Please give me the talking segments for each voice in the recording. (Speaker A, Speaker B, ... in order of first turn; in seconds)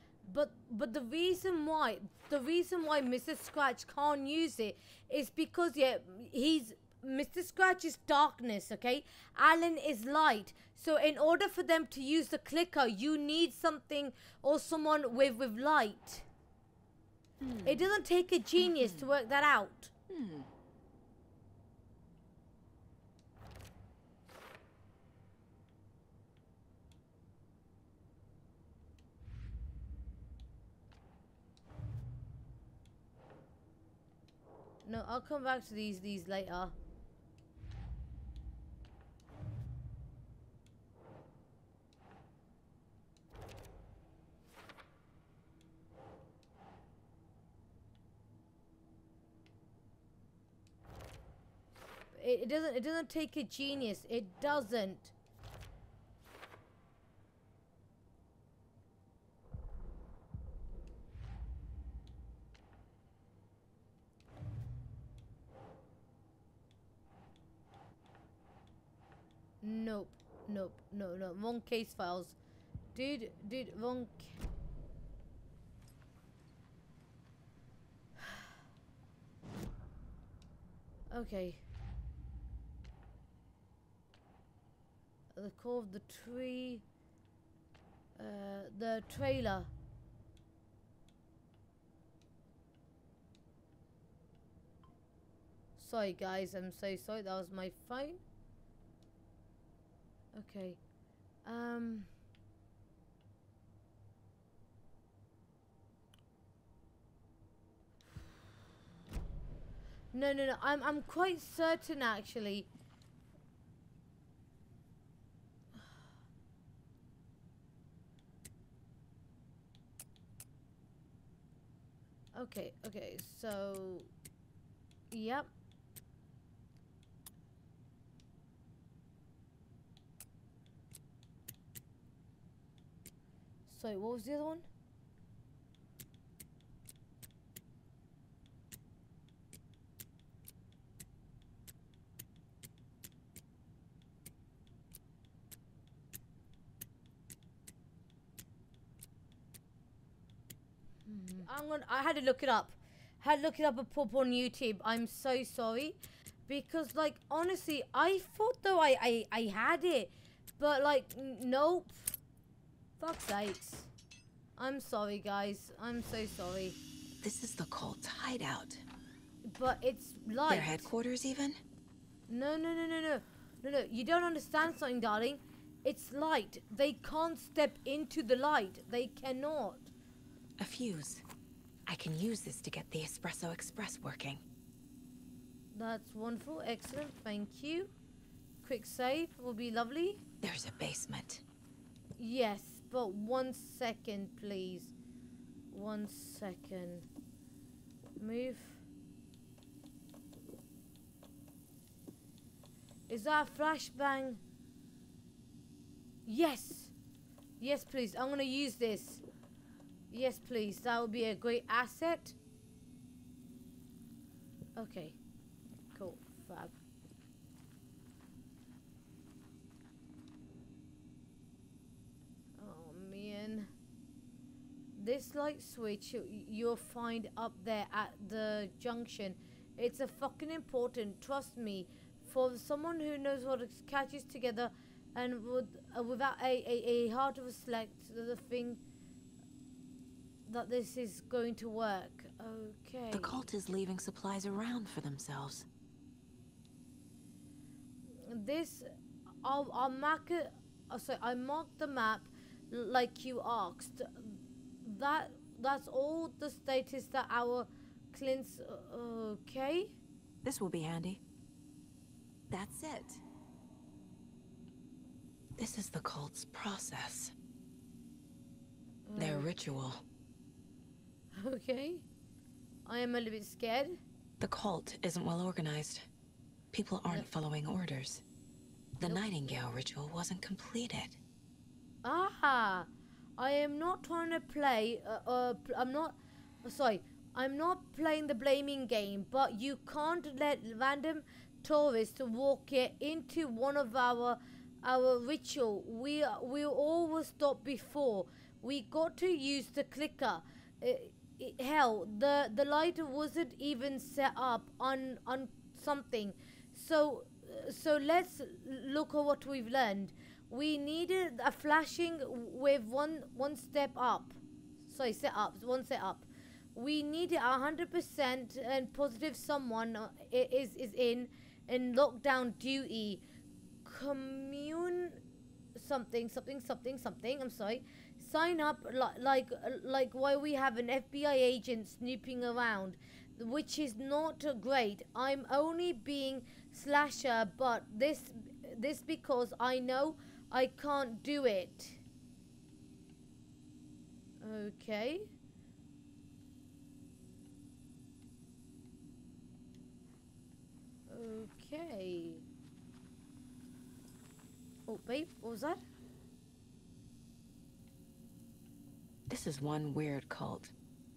Speaker A: 0.2-16.3, 17.6-19.9, 34.8-36.7, 52.1-55.1, 69.6-72.3, 72.9-74.4, 81.1-81.6, 85.3-86.8, 88.2-89.7, 95.8-98.2, 100.3-100.8, 101.4-102.1, 110.1-112.7, 122.3-124.1, 125.1-125.5, 133.7-134.7, 151.1-162.2, 163.0-163.9, 164.6-166.8, 169.4-170.9, 172.3-179.9, 185.7-187.9, 188.6-190.2, 192.2-194.9, 195.7-197.1, 198.2-198.8, 203.1-204.4, 206.2-206.9, 207.6-209.2, 210.1-212.4, 214.8-215.2, 215.9-216.7, 222.6-223.7, 224.9-238.8, 240.4-243.4, 248.2-248.9, 249.4-259.9, 269.1-269.5, 271.3-272.0, 272.9-274.0, 282.0-323.2, 323.8-325.2, 325.7-342.0, 344.4-345.3, 351.1-352.4, 354.9-355.8
Speaker B: 17.4-17.8, 18.6-19.1, 20.1-20.5, 167.2-168.8, 170.5-171.6, 180.6-181.2, 181.9-184.4, 190.4-191.4, 243.1-245.7, 260.4-261.2, 262.5-263.2, 265.6-267.3, 269.2-270.0, 274.4-276.1, 276.7-278.2, 279.0-281.2, 359.3-360.7